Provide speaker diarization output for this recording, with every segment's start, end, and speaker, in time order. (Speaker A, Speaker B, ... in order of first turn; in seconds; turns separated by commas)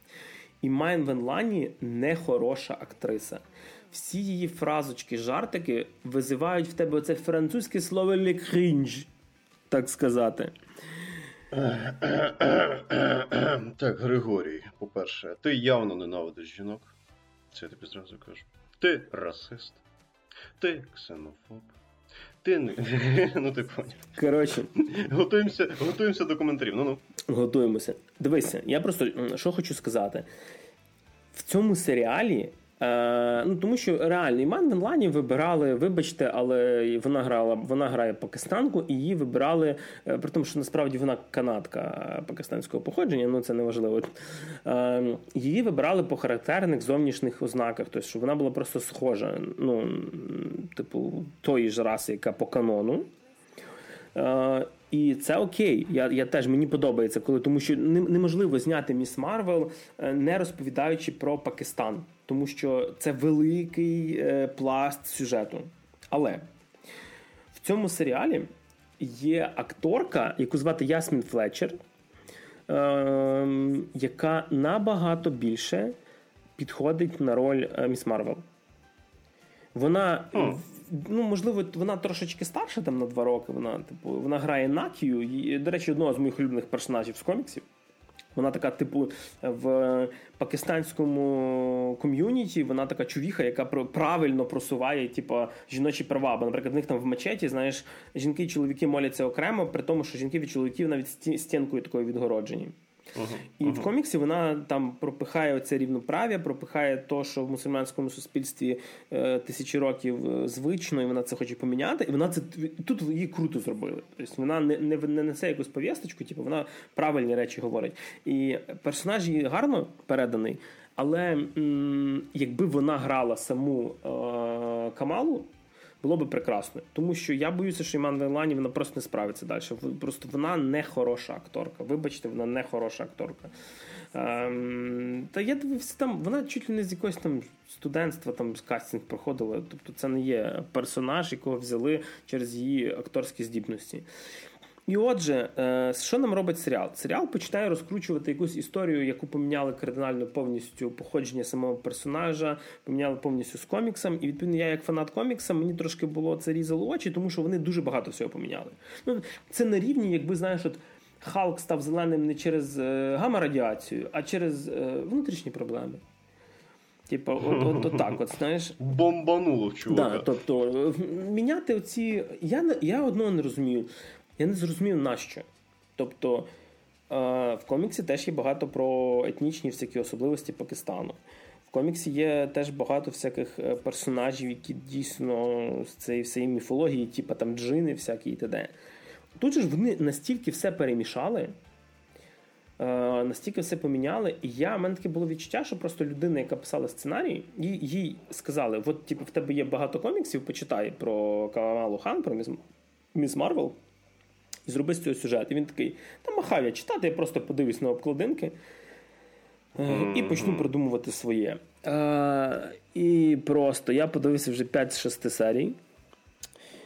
Speaker A: 0.6-9.1, Speaker A: 9.7-10.5, Speaker B: 11.5-16.9, Speaker B: 17.5-19.8, Speaker B: 20.6-21.7, Speaker B: 22.4-24.0, Speaker A: 24.1-24.7, Speaker B: 24.7-27.0, Speaker A: 27.3-30.3, Speaker A: 31.3-44.1, Speaker A: 44.6-53.1, Speaker A: 54.1-66.5, Speaker A: 67.5-71.8, Speaker A: 72.7-75.9, Speaker A: 76.6-78.4, Speaker A: 79.7-87.6, Speaker B: 80.3-80.6, Speaker A: 88.3-102.8, Speaker B: 103.1-103.9, Speaker A: 103.6-125.5, Speaker A: 126.0-133.5, Speaker A: 134.1-144.1, Speaker A: 144.9-166.0, Speaker A: 167.1-168.8, Speaker B: 167.4-168.2, Speaker B: 168.8-170.3, Speaker A: 169.9-175.4, Speaker A: 176.0-176.5, Speaker A: 177.1-188.7, Speaker A: 189.4-191.6, Speaker A: 192.8-202.6, Speaker A: 203.1-203.8, Speaker A: 204.7-208.5, Speaker A: 209.8-215.8, Speaker B: 209.8-210.7